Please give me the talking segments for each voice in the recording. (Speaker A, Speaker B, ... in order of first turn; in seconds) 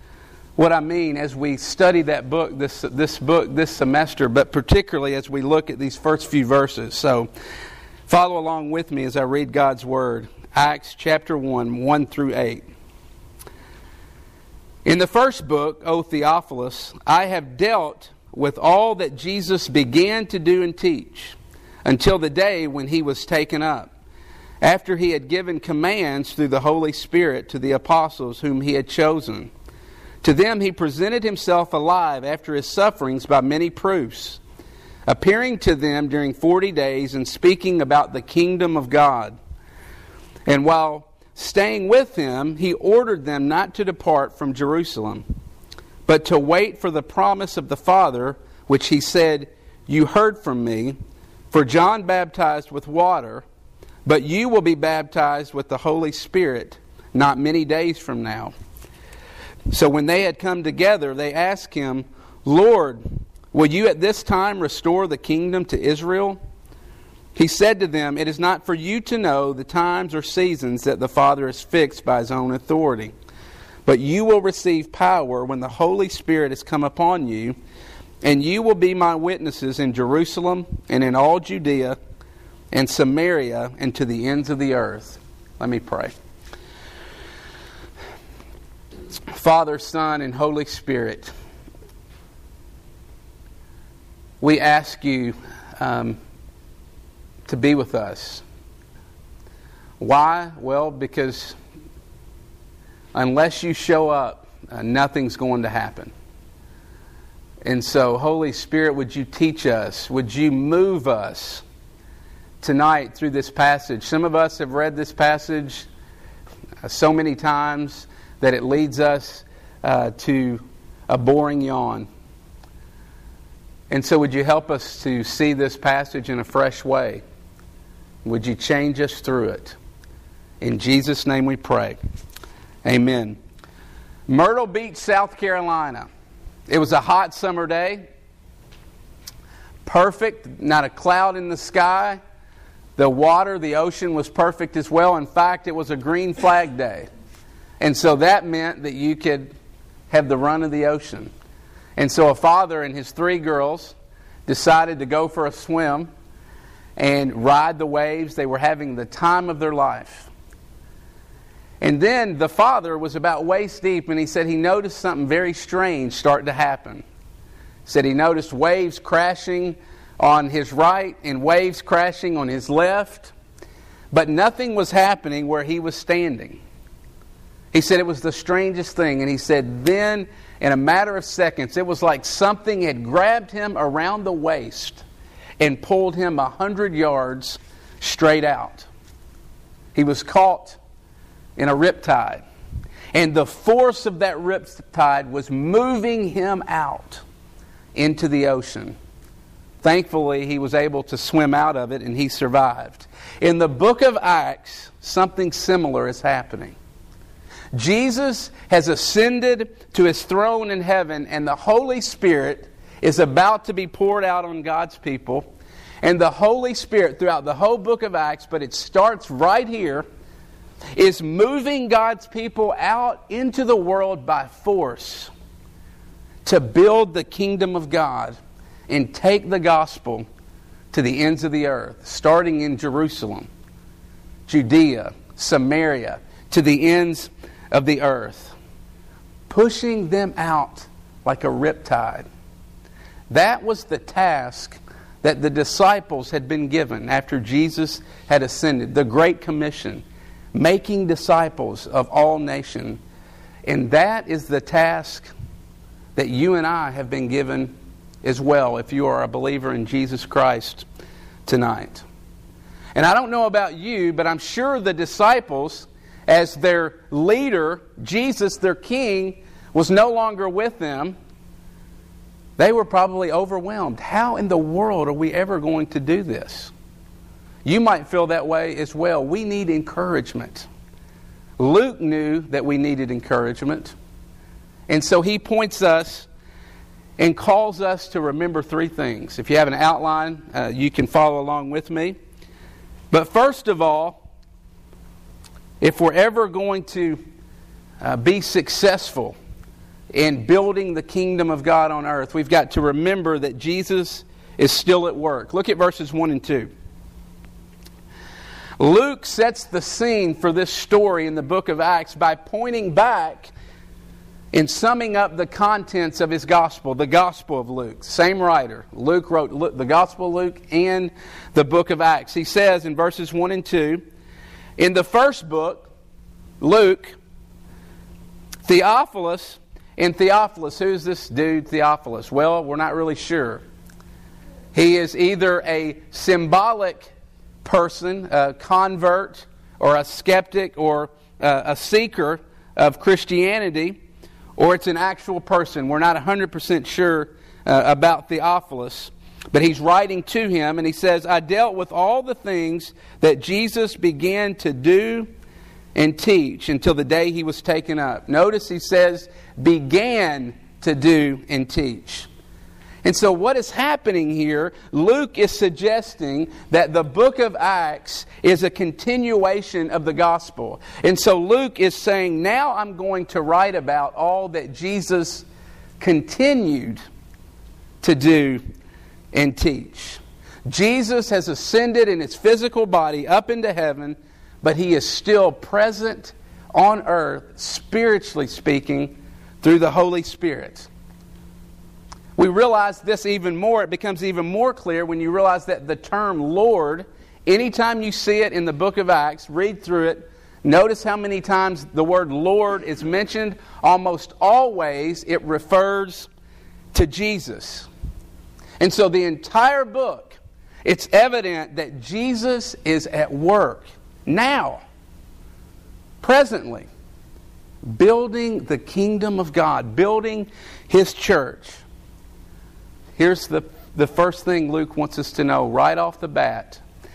Speaker A: 0.6-7.3, 8.1-12.7, 14.8-23.9, 24.6-29.5, 30.2-34.4, 35.1-39.4, 40.5-45.2, 46.0-51.0, 51.5-53.4, 54.0-58.5, 59.7-66.4, 67.3-73.1, 73.8-77.5, 78.2-82.0, 82.7-86.1, 89.3-91.3, 94.4-96.2, 97.5-98.4, 100.0-101.5, 103.1-106.1, 107.6-111.6, 112.6-115.9, 116.8-122.1, 123.9-127.2, 128.2-129.8, 130.6-132.0, 132.8-133.4, 134.3-136.1, 136.7-138.0, 139.8-142.2, 143.0-147.1, 147.8-149.5, 150.1-151.3, 152.0-153.9, 154.5-156.1, 157.0-160.3, 161.8-167.0, 167.8-173.3, 174.1-176.6, 177.7-185.0, 185.6-188.9, 189.9-190.8, 191.6-192.4, 193.1-197.2, 197.9-198.9, 199.8-206.8, 207.7-215.4, 216.0-220.0, 220.9-225.3, 226.4-228.4, 228.9-230.3, 230.9-233.5, 234.5-238.6, 239.5-242.2, 243.3-253.0, 253.7-255.3, 256.1-260.9, 261.4-262.1, 262.9-271.1, 272.6-276.7, 277.6-280.7, 281.6-283.9, 284.9-286.3, 287.2-292.1, 293.1-294.2, 295.8-297.2, 298.0-299.4, 300.1-306.7, 308.8-313.5, 314.5-324.0, 324.8-325.9, 326.6-327.1, 328.6-333.6, 334.7-344.0, 344.6-355.3, 355.9-362.3, 363.0-375.4, 376.0-377.0, 378.0-378.6, 379.3-390.9, 392.4-406.3, 406.9-407.9, 408.8-414.8, 416.2-416.9, 417.8-421.8, 423.2-426.8